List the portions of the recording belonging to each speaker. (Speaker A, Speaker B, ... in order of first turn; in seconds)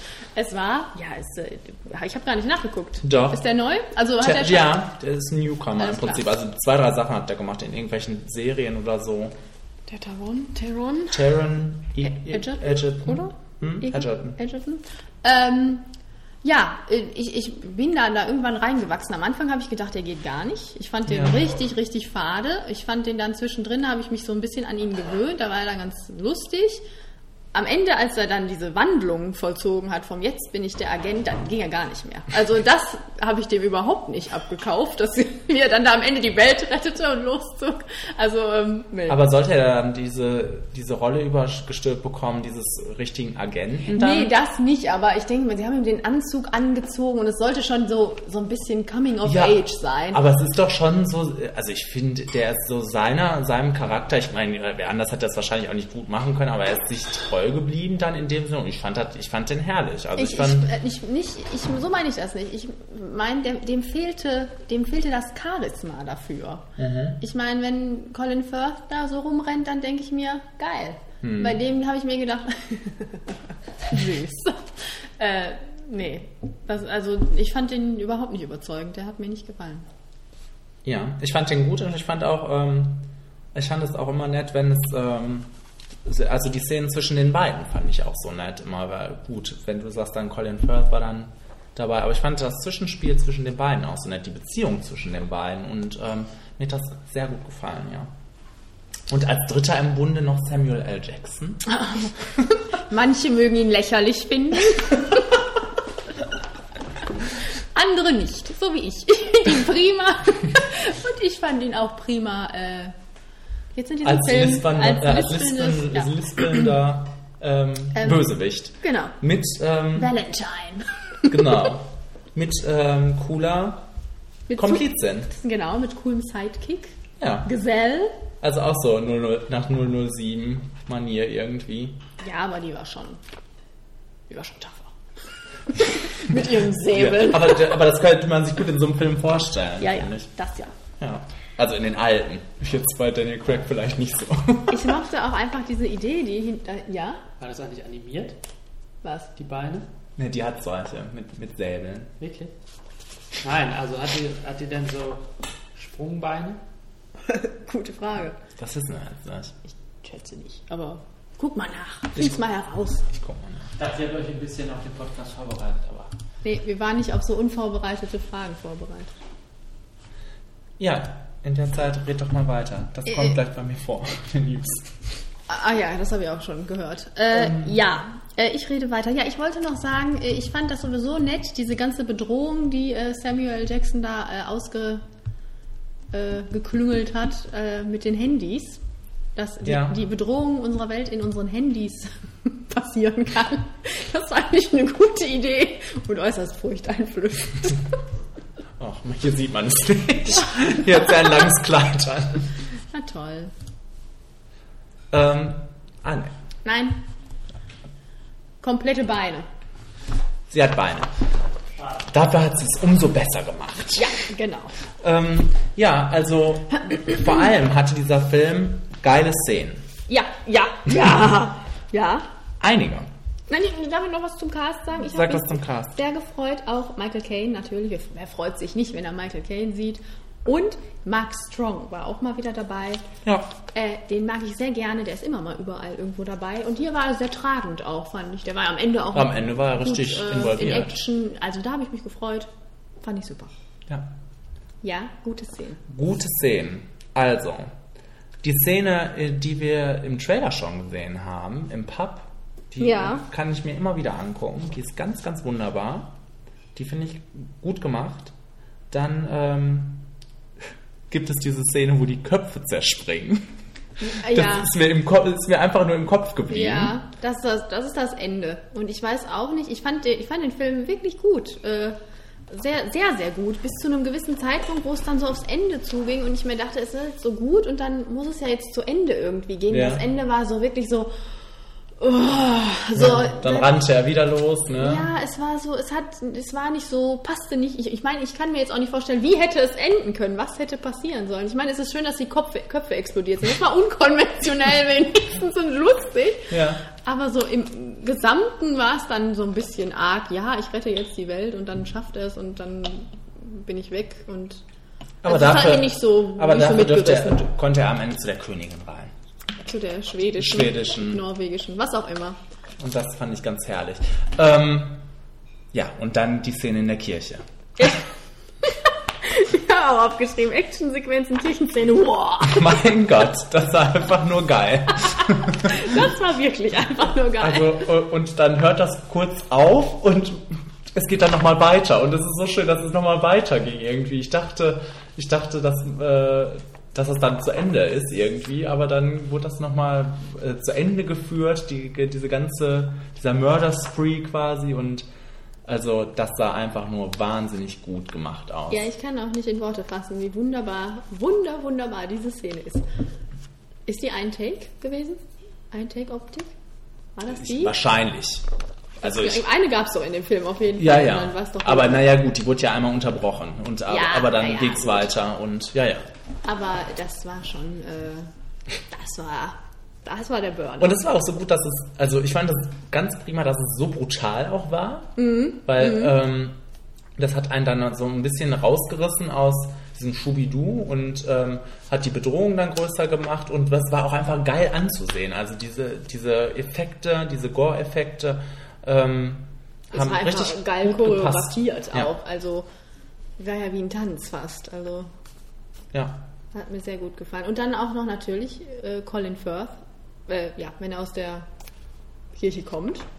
Speaker A: 0.3-4.8, 5.8-6.3, 9.9-11.2, 12.0-15.9, 16.4-26.8, 27.5-39.2, 43.9-50.2, 60.2-66.7, 67.2-73.3, 73.9-79.9, 101.7-102.1, 102.7-105.2, 107.7-112.9, 113.8-116.6, 118.0-118.3, 118.8-119.2, 120.0-121.7, 124.5-128.2, 132.2-133.2, 134.3-134.9, 135.7-137.8, 139.8-140.7, 144.7-147.2, 149.0-149.3, 157.3-158.4, 159.7-163.1, 166.4-169.1, 173.1-173.4, 175.5-185.0, 186.1-188.8, 189.4-197.8, 202.9-203.5, 206.7-207.0, 208.6-209.5, 214.0-214.8, 216.9-217.2, 220.1-222.3, 223.5-233.0, 233.7-242.5, 243.0-243.5, 244.8-245.8, 252.8-253.2, 264.0-264.7, 266.5-272.0, 272.5-281.1, 282.0-283.7, 284.8-304.6, 305.3-307.4, 309.6-312.4, 318.6-322.8, 325.2-327.9, 348.7-352.9, 353.9-356.5, 357.2-357.8, 359.0-362.1, 363.9-365.1, 366.4-368.3, 368.9-371.0, 375.2-376.1, 389.9-392.7, 393.4-395.1, 396.5-401.5, 402.4-403.1
Speaker B: 3.0-3.5, 4.2-9.4, 11.1-14.4, 21.1-21.4, 39.1-44.3, 49.2-49.6, 50.1-60.7, 66.8-67.2, 71.2-71.6, 80.8-85.5, 86.0-98.1, 99.1-101.6, 114.0-120.1, 121.3-123.8, 124.5-125.3, 127.2-127.5, 128.4-132.0, 136.9-140.3, 141.0-145.0, 150.2-152.1, 158.6-159.6, 162.2-162.4, 163.1-163.7, 170.8-174.9, 177.3-177.7, 189.6-190.0, 198.8-202.5, 205.1-206.3, 210.5-211.1, 212.1-214.1, 215.0-219.9, 222.6-223.1, 225.1-226.0, 233.2-233.5, 239.1-241.0, 245.9-247.7, 248.4-256.2, 256.8-258.3, 258.9-260.1, 261.1-263.6, 264.2-267.0, 279.7-280.0, 282.9-285.1, 296.5-296.8, 305.2-309.1, 310.4-311.2, 312.8-315.0, 315.7-317.9, 322.4-325.9, 327.4-345.1, 345.7-348.9, 357.3-358.4, 359.0-359.5, 360.8-366.1, 370.8-376.6, 377.2-392.1, 395.9-396.2
Speaker C: 147.4-148.4, 149.4-149.9, 152.2-152.5, 153.4-156.6, 163.8-166.1